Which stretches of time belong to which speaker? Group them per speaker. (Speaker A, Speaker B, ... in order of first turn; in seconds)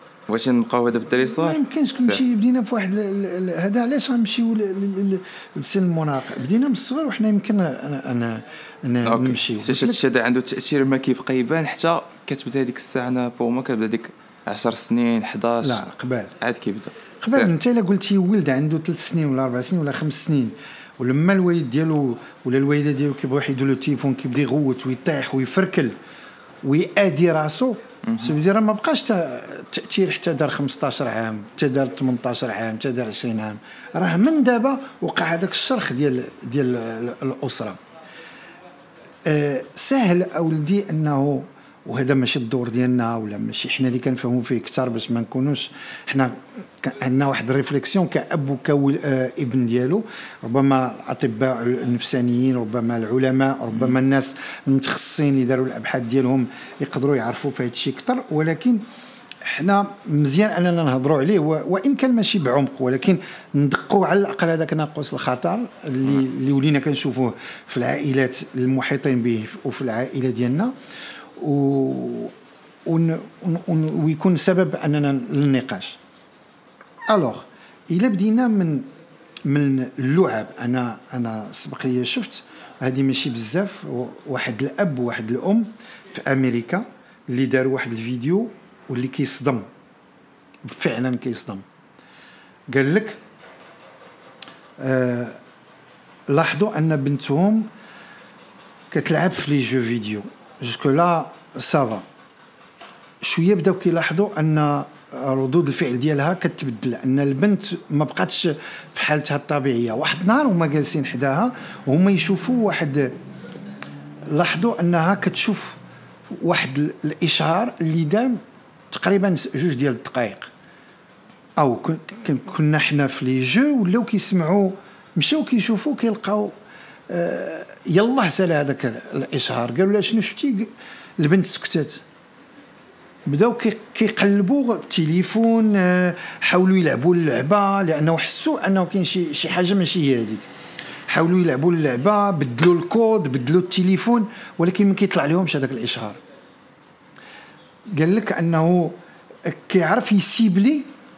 Speaker A: 0.3-2.2, 9.1-15.8, 16.4-17.5, 28.1-28.3
Speaker B: 1.4-10.0, 15.6-16.3, 17.2-26.0, 26.6-37.8, 39.3-58.8, 59.5-70.7, 71.4-72.3, 72.9-76.0, 77.1-78.9, 79.5-89.7, 90.7-91.6, 92.7-93.2, 94.8-95.4, 96.3-97.7, 98.9-102.0, 103.2-113.1, 114.3-118.4, 118.9-120.5, 121.6-126.5, 127.1-132.0, 133.3-140.4, 141.1-146.2, 147.9-150.9